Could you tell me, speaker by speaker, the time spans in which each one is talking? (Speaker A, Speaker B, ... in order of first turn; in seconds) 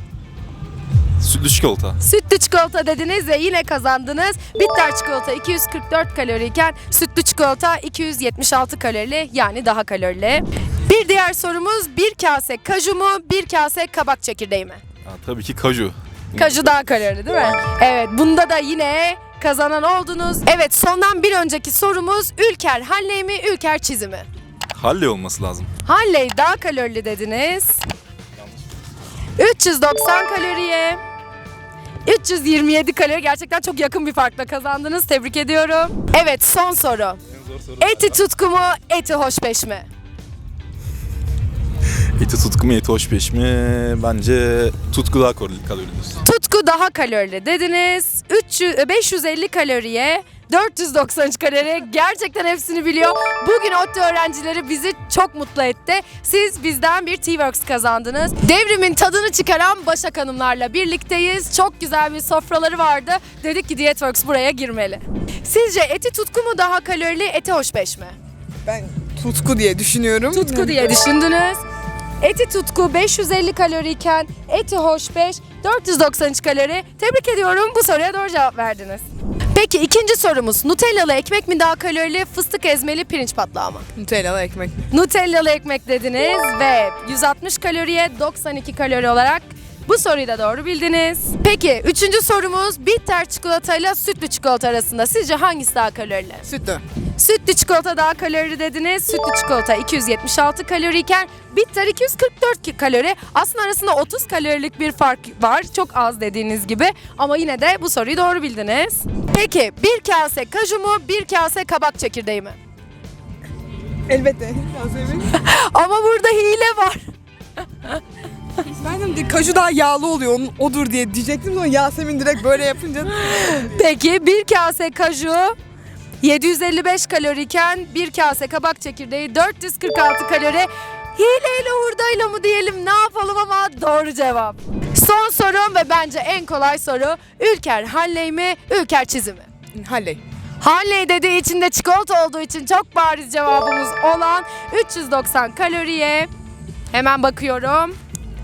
Speaker A: 1.2-2.0, 15.1-16.8, 24.7-25.7, 37.3-38.2, 42.2-46.2
Speaker B: 2.0-14.8, 16.4-24.3, 25.9-27.8, 29.4-31.0, 32.1-37.2, 37.8-39.9, 46.2-68.2, 70.3-71.6, 72.2-79.0, 79.5-83.9, 84.9-96.5, 97.2-112.6, 115.3-117.1, 123.3-125.6, 126.2-139.5, 140.6-146.3, 146.9-148.0
Speaker C: 68.7-70.9, 84.0-84.8, 96.5-96.8, 114.1-115.3, 118.8-123.5, 139.8-140.2